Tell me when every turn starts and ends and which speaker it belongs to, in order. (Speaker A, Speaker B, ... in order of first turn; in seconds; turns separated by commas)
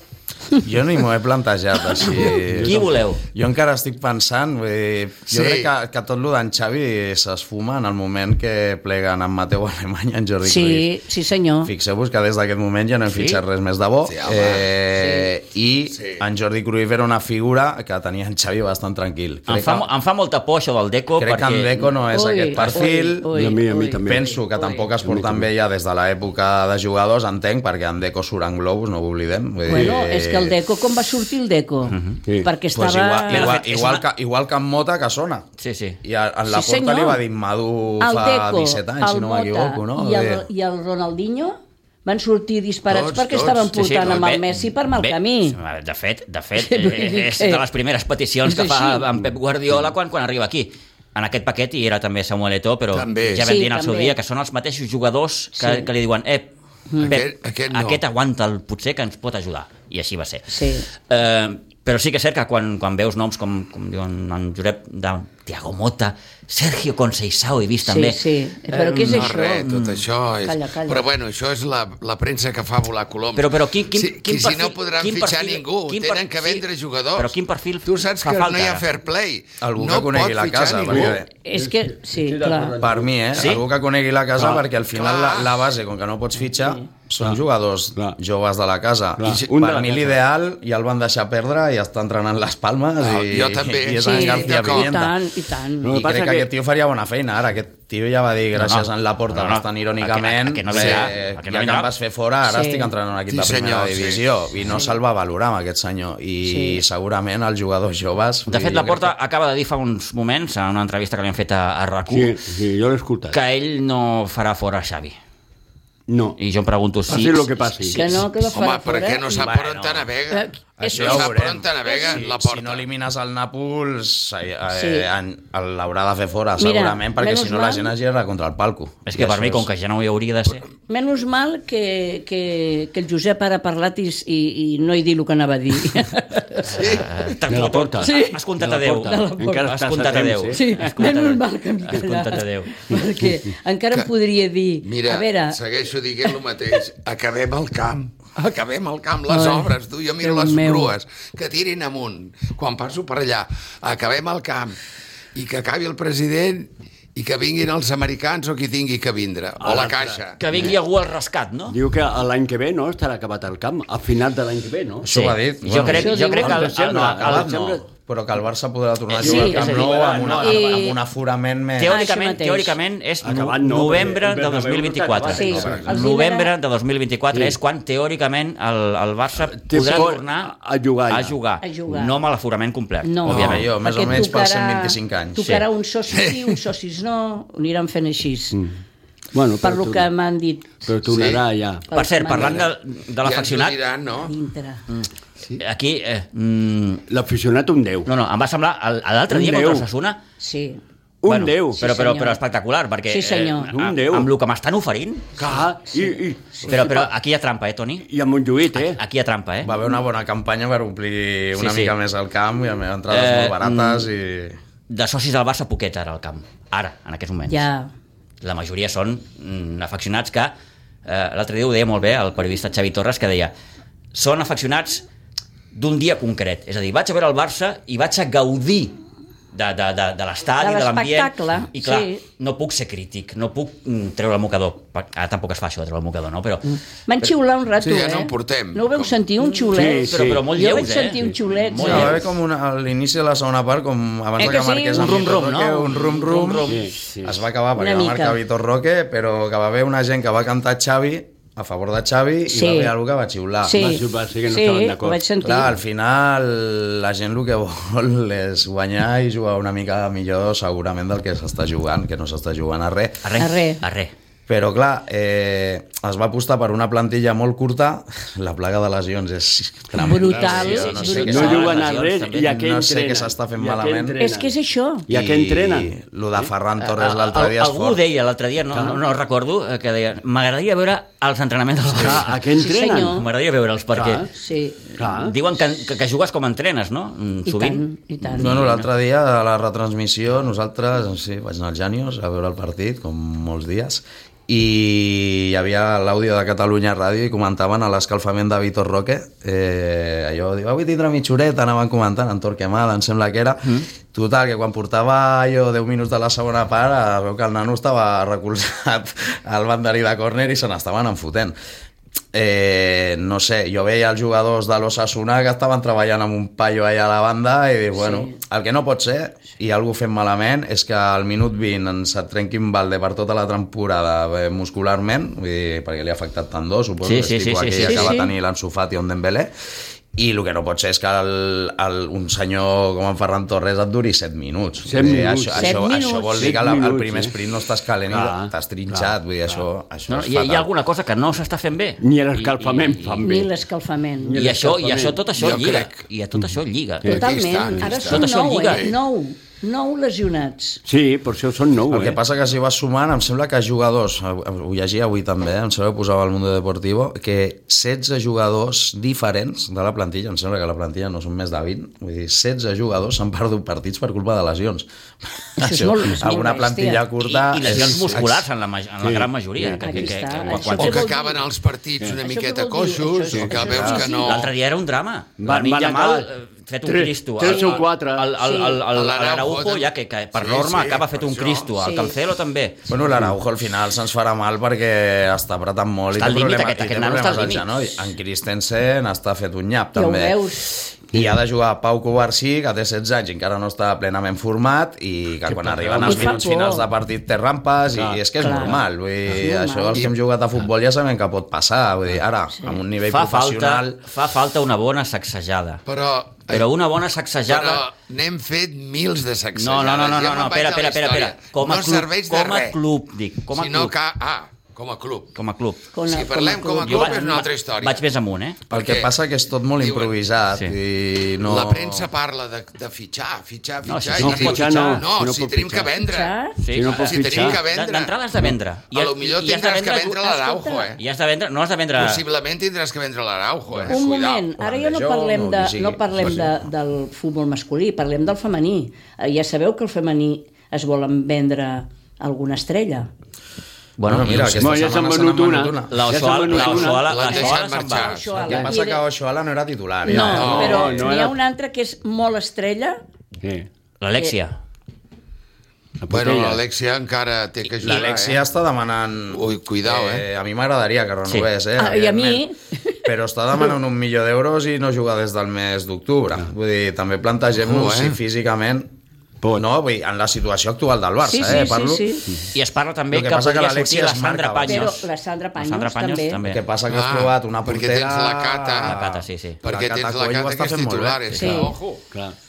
Speaker A: 0.6-10.9, Speaker B: 2.0-3.2, Speaker C: 5.3-5.7, Speaker D: 10.4-11.7, Speaker A: 11.6-19.9, Speaker B: 13.1-13.4, Speaker C: 14.1-14.7, Speaker D: 14.9-15.3, Speaker C: 15.9-16.2, Speaker B: 19.5-21.9, Speaker A: 21.2-23.3, Speaker D: 22.1-24.9, Speaker E: 23.3-24.3, Speaker A: 24.1-30.6, Speaker E: 25.0-25.5, Speaker D: 29.7-33.5, Speaker E: 29.7-30.0, Speaker B: 31.9-32.2, Speaker A: 32.7-35.5, Speaker B: 33.3-34.0, Speaker B: 35.6-36.0, Speaker A: 36.0-40.5, Speaker D: 36.5-37.2, Speaker D: 38.0-45.6, Speaker C: 42.9-44.1, Speaker B: 43.8-68.2, Speaker D: 46.6-47.6, Speaker D: 48.5-49.1, Speaker C: 52.9-53.5, Speaker D: 53.4-54.1, Speaker D: 55.6-55.9, Speaker D: 56.9-57.2, Speaker C: 57.0-58.0, Speaker D: 60.5-60.9, Speaker D: 67.8-69.7, Speaker B: 68.8-70.0, Speaker C: 68.8-77.3, Speaker D: 70.5-71.1, Speaker B: 73.4-76.7, Speaker B: 77.2-78.9, Speaker C: 77.8-81.2, Speaker A: 79.6-81.3, Speaker E: 80.9-83.3, Speaker D: 81.4-82.8, Speaker A: 82.8-95.2, Speaker B: 83.3-83.6, Speaker E: 84.4-84.6, Speaker C: 84.9-85.5, Speaker D: 86.6-86.8, Speaker E: 89.2-90.2, Speaker C: 93.0-94.9, Speaker D: 94.0-96.0, Speaker E: 95.8-96.5, Speaker A: 95.8-109.1, Speaker B: 98.6-101.9, Speaker C: 100.7-101.1, Speaker D: 102.5-102.9, Speaker C: 103.3-104.2, Speaker D: 106.5-106.8, Speaker B: 108.5-112.4, Speaker E: 112.1-113.4, Speaker B: 113.3-115.2, Speaker E: 116.1-116.4, Speaker B: 116.4-118.2, Speaker E: 117.1-118.1, Speaker D: 117.9-119.5, Speaker C: 118.4-122.8, Speaker A: 119.3-120.1, Speaker D: 120.3-122.1, Speaker A: 120.8-129.7, Speaker D: 124.7-125.1, Speaker D: 126.6-127.9, Speaker B: 129.1-130.7, Speaker D: 130.9-136.8, Speaker C: 136.7-137.3, Speaker B: 136.7-142.8, Speaker E: 137.5-140.6, Speaker D: 138.0-138.4, Speaker D: 139.0-139.7, Speaker D: 140.5-145.6, Speaker C: 144.8-154.8, Speaker D: 149.3-150.9, Speaker C: 155.3-160.4, Speaker E: 159.6-160.8, Speaker B: 160.4-161.8, Speaker E: 161.7-165.1, Speaker A: 165.0-172.0, Speaker B: 165.1-167.6, Speaker E: 165.9-167.8, Speaker D: 165.9-166.6, Speaker B: 169.1-170.6, Speaker E: 169.2-170.8, Speaker D: 169.2-169.6, Speaker D: 170.4-171.0, Speaker B: 171.8-180.5, Speaker D: 171.9-172.8, Speaker E: 173.2-176.0, Speaker D: 175.3-176.5, Speaker E: 179.4-181.4, Speaker B: 181.1-183.7, Speaker D: 181.6-182.2, Speaker D: 183.0-188.6, Speaker A: 183.3-185.5, Speaker C: 186.1-186.6, Speaker E: 189.3-190.1, Speaker D: 189.6-190.9, Speaker E: 190.9-192.7, Speaker C: 191.1-191.4, Speaker D: 191.9-192.7, Speaker B: 191.9-193.8, Speaker C: 193.2-194.3, Speaker D: 194.2-194.8, Speaker B: 194.9-197.1, Speaker E: 197.1-198.1, Speaker B: 198.1-200.2, Speaker E: 199.3-199.9, Speaker D: 200.4-200.8, Speaker E: 201.2-201.9, Speaker B: 201.3-205.4, Speaker D: 201.8-202.4, Speaker D: 203.1-203.7, Speaker E: 203.7-204.3, Speaker E: 205.4-207.1, Speaker D: 205.9-206.8, Speaker B: 206.7-208.1, Speaker E: 208.0-209.0, Speaker B: 208.7-209.8, Speaker A: 209.6-214.6, Speaker B: 211.6-211.9, Speaker B: 213.1-214.1, Speaker B: 214.9-217.7, Speaker D: 217.5-217.9, Speaker B: 218.4-220.5, Speaker B: 221.1-223.5, Speaker B: 224.1-225.1, Speaker B: 225.7-228.9, Speaker B: 229.5-236.8, Speaker D: 230.6-232.2, Speaker D: 236.7-242.2, Speaker C: 237.8-239.2, Speaker E: 239.6-242.0, Speaker B: 239.7-242.2, Speaker A: 241.8-253.8, Speaker D: 244.4-245.2, Speaker B: 244.9-246.9, Speaker E: 246.7-247.4, Speaker D: 247.8-248.4, Speaker D: 252.5-252.9, Speaker D: 253.6-255.8, Speaker E: 253.7-255.2, Speaker A: 255.4-263.3, Speaker B: 263.2-264.1, Speaker D: 263.4-263.8, Speaker A: 264.5-271.8, Speaker D: 270.0-271.7, Speaker B: 270.4-272.5, Speaker E: 271.2-274.5, Speaker A: 272.3-274.2, Speaker D: 274.2-275.1, Speaker E: 275.1-275.9, Speaker A: 275.1-278.0, Speaker B: 276.8-282.4, Speaker E: 278.7-279.0, Speaker E: 281.9-283.1, Speaker D: 282.6-283.3, Speaker B: 283.0-284.3, Speaker E: 283.9-284.3, Speaker D: 284.3-284.8, Speaker E: 285.0-285.4, Speaker B: 285.0-288.9, Speaker D: 287.5-288.6, Speaker A: 288.4-311.6, Speaker A: 312.3-329.5, Speaker D: 318.0-318.4, Speaker B: 327.0-328.1, Speaker D: 327.8-328.3, Speaker A: 330.1-340.7, Speaker E: 334.8-337.3, Speaker D: 335.6-336.6, Speaker E: 338.1-339.6, Speaker B: 340.1-343.3, Speaker E: 342.0-343.5, Speaker D: 343.2-344.4, Speaker E: 344.2-345.3, Speaker B: 344.4-347.2, Speaker C: 345.4-346.0, Speaker E: 347.0-347.3, Speaker D: 347.1-350.8, Speaker C: 347.1-349.0, Speaker B: 347.9-348.9, Speaker E: 350.9-352.2, Speaker A: 351.9-368.4, Speaker D: 365.6-367.0, Speaker B: 367.2-371.1, Speaker E: 367.7-368.2, Speaker E: 369.0-370.8, Speaker D: 369.8-371.4, Speaker C: 370.8-374.5, Speaker D: 372.2-374.5, Speaker A: 373.7-374.0, Speaker B: 374.2-382.9, Speaker E: 375.4-376.3, Speaker E: 376.9-378.3, Speaker D: 377.4-377.8, Speaker D: 378.4-378.8, Speaker C: 378.9-381.7, Speaker D: 381.8-382.1, Speaker A: 382.9-390.4, Speaker B: 386.2-387.7, Speaker D: 389.9-390.7, Speaker A: 391.1-404.0, Speaker E: 395.5-396.5, Speaker D: 396.0-396.9, Speaker E: 397.9-398.8, Speaker D: 398.4-400.1, Speaker B: 403.0-405.8, Speaker C: 405.9-406.7, Speaker B: 406.5-407.9, Speaker C: 407.5-412.8, Speaker B: 409.6-413.9, Speaker C: 413.5-415.4, Speaker B: 415.4-415.9, Speaker D: 415.9-417.5, Speaker C: 416.0-418.0, Speaker B: 416.8-418.6, Speaker C: 418.7-419.1, Speaker A: 418.7-422.1, Speaker C: 419.8-420.1, Speaker C: 421.4-428.2, Speaker B: 423.9-425.1, Speaker E: 424.2-425.9, Speaker D: 426.0-426.6, Speaker B: 426.6-430.3, Speaker E: 426.7-427.6, Speaker C: 428.9-431.0, Speaker D: 430.2-430.9, Speaker B: 431.0-432.2, Speaker C: 431.9-434.5, Speaker D: 433.9-443.1, Speaker A: 434.6-436.6, Speaker B: 444.0-444.8, Speaker A: 444.1-446.1, Speaker E: 444.3-447.1, Speaker B: 445.9-448.2, Speaker C: 446.5-448.4, Speaker D: 447.2-449.0, Speaker A: 448.4-450.8, Speaker D: 450.1-453.0, Speaker B: 450.1-450.7, Speaker C: 450.3-451.0, Speaker E: 450.3-451.4, Speaker E: 453.4-453.7, Speaker B: 454.0-454.6, Speaker E: 456.0-456.6, Speaker C: 456.1-458.4, Speaker A: 457.8-462.5, Speaker C: 459.3-460.3, Speaker D: 461.8-463.0, Speaker A: 463.0-468.9, Speaker C: 467.6-468.2, Speaker A: 469.6-472.1, Speaker D: 471.2-472.3, Speaker B: 472.5-475.1, Speaker A: 473.1-475.0, Speaker D: 474.7-476.4, Speaker B: 475.6-476.6, Speaker A: 476.4-481.2, Speaker C: 476.9-479.0, Speaker B: 478.8-479.6, Speaker C: 479.6-482.0, Speaker B: 481.3-481.6, Speaker D: 481.3-481.7